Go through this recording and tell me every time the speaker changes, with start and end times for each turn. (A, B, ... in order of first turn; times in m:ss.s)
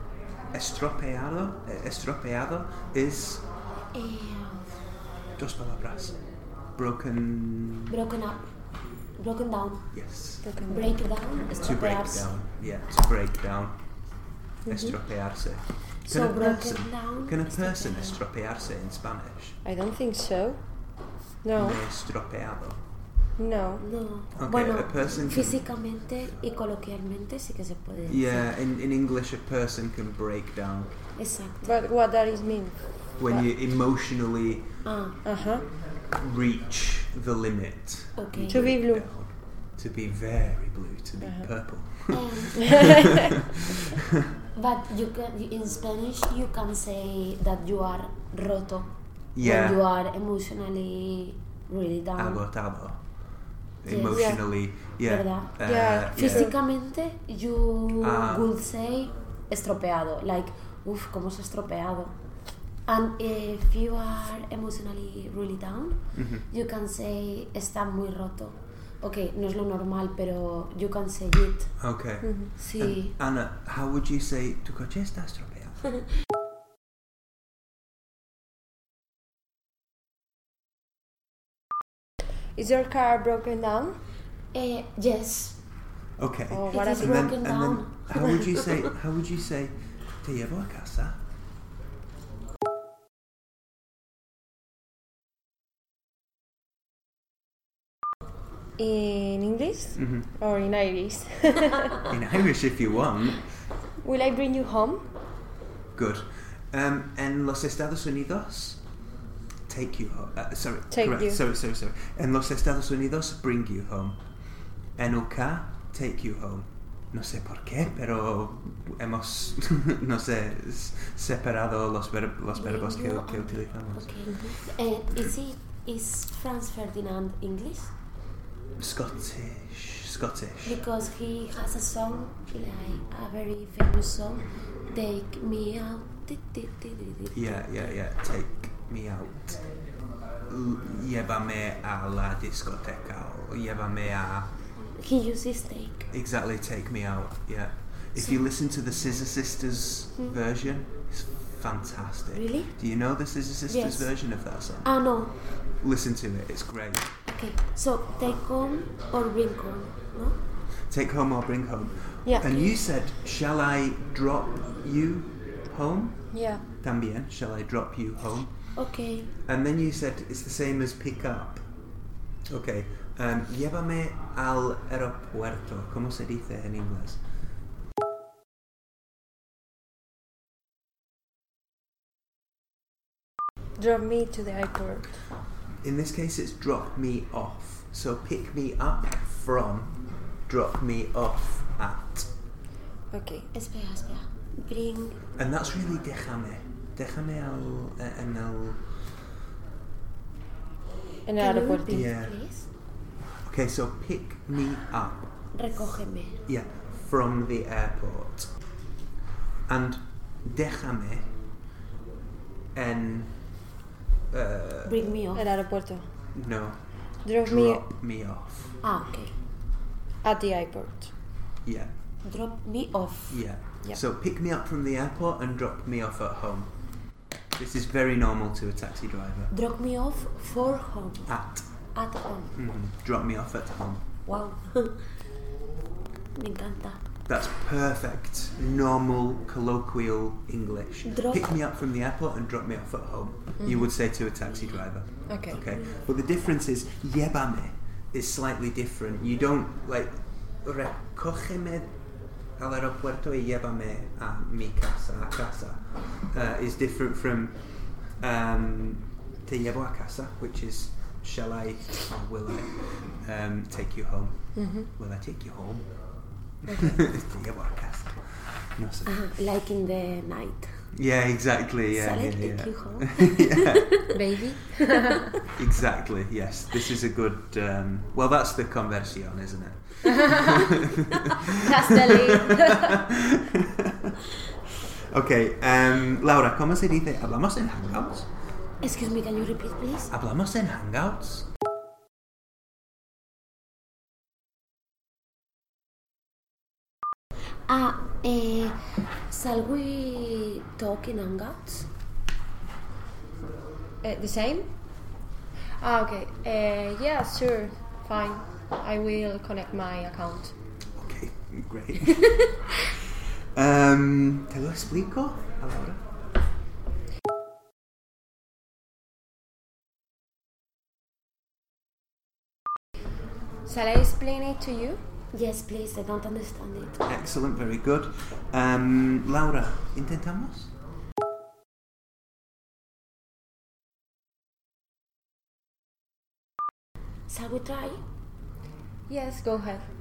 0:00.5-0:03.4 A
0:03.9-0:04.7 B
0:05.4-0:06.2 A
0:06.8-0:08.0 A
0:07.9-0:08.5 B
0:09.2-0:09.9 B
0:09.9-0:10.5 A
0:10.4-0:11.0 C
0:10.7-0:12.3 B
0:11.6-0:13.8 A
0:14.6-0:15.0 C
0:14.7-0:19.6 A
0:16.0-0:18.2 B
0:19.6-0:20.6 C
0:21.4-0:21.8 C
0:21.6-0:22.8 A
0:23.4-0:23.8 C
0:23.8-0:28.5 B
0:24.4-0:25.6 A
0:28.0-0:30.9 A
0:31.2-0:31.8 B
0:31.6-0:33.4 C
0:33.2-0:34.7 A
0:34.8-0:35.2 B
0:35.2-0:35.6 C
0:36.1-0:43.8 A
0:38.2-0:38.8 B
0:38.5-0:39.1 C
0:41.2-0:41.5 C
0:42.1-0:42.7 B
0:42.7-0:43.2 C
0:44.5-0:52.4 B
0:49.3-0:49.8 A
0:52.2-0:53.0 A
0:53.8-0:56.5 A
0:53.8-0:54.4 B
0:54.0-0:54.4 C
0:55.0-1:02.1 B
0:55.6-0:56.5 C
0:58.0-0:58.5 A
1:02.8-1:11.7 B
1:06.1-1:06.5 A
1:11.8-1:15.8 A
1:12.2-1:12.5 C
1:12.6-1:13.1 B
1:22.6-1:24.0 C
1:24.5-1:25.6 B
1:26.2-1:31.2 A
1:26.5-1:27.4 C
1:26.7-1:28.8 B
1:38.8-1:42.0 C
1:40.0-1:40.2 A
1:42.0-1:43.4 A
1:44.0-1:45.0 C
1:45.9-1:48.8 A
1:49.7-1:54.2 A
1:50.9-1:51.4 C
1:55.0-2:04.5 A
2:02.5-2:07.9 B
2:08.8-2:10.8 A
2:10.6-2:18.0 B
2:17.3-2:19.6 A
2:20.5-2:24.5 A
2:24.9-2:26.1 B
2:26.1-2:34.9 A
2:28.2-2:28.4 B
2:32.3-2:32.7 B
2:33.7-2:34.1 B
2:34.8-2:35.3 B
2:35.8-2:37.1 A
2:37.3-2:40.4 B
2:40.9-2:46.3 A
2:42.2-2:42.7 C
2:46.3-2:46.6 C
2:46.8-2:48.5 A
2:48.7-2:49.3 B
2:49.4-2:51.6 A
2:52.5-2:57.2 A
3:03.8-3:05.2 C
3:05.8-3:12.3 A
3:13.1-3:13.5 C
3:13.5-3:15.2 B
3:15.4-3:18.8 A
3:21.2-3:22.0 C
3:21.4-3:22.7 B
3:21.9-3:22.4 A
3:23.4-3:25.3 A
3:25.5-3:26.4 B
3:26.5-3:28.5 A
3:29.7-3:31.3 A
3:32.7-3:33.4 A
3:34.3-3:35.1 A
3:34.8-3:35.5 B
3:35.3-3:36.1 C
3:36.3-3:36.8 A
3:37.2-3:37.9 C
3:37.4-3:38.8 A
3:38.8-3:39.3 B
3:40.2-3:41.1 C
3:41.6-3:41.9 A
3:42.2-3:43.4 B
3:43.3-3:46.7 A
3:47.6-3:49.5 A
3:49.5-3:51.3 B
3:51.3-3:51.6 A
3:51.9-3:52.6 B
3:52.5-3:54.0 A
3:54.2-3:55.1 B
3:56.3-3:57.0 B
3:57.2-4:11.9 A
4:01.1-4:01.4 B
4:03.6-4:03.9 C
4:05.3-4:05.6 C
4:12.6-4:17.6 A
4:18.2-4:25.9 A
4:24.6-4:24.9 C
4:26.6-4:29.2 A
4:29.0-4:30.7 B
4:30.9-4:34.0 A
4:31.9-4:34.2 B
4:34.1-4:35.3 C
4:35.5-4:44.2 A
4:41.4-4:43.0 C
4:44.9-4:48.3 A
4:48.8-4:50.1 B
4:50.1-4:51.5 A
4:57.7-5:01.9 B
5:04.0-5:04.7 C
5:05.8-5:10.5 C
5:11.0-5:16.0 A
5:23.6-5:25.0 C
5:25.3-5:27.0 B
5:27.0-5:30.7 A
5:37.3-5:38.0 B
5:39.1-5:39.9 C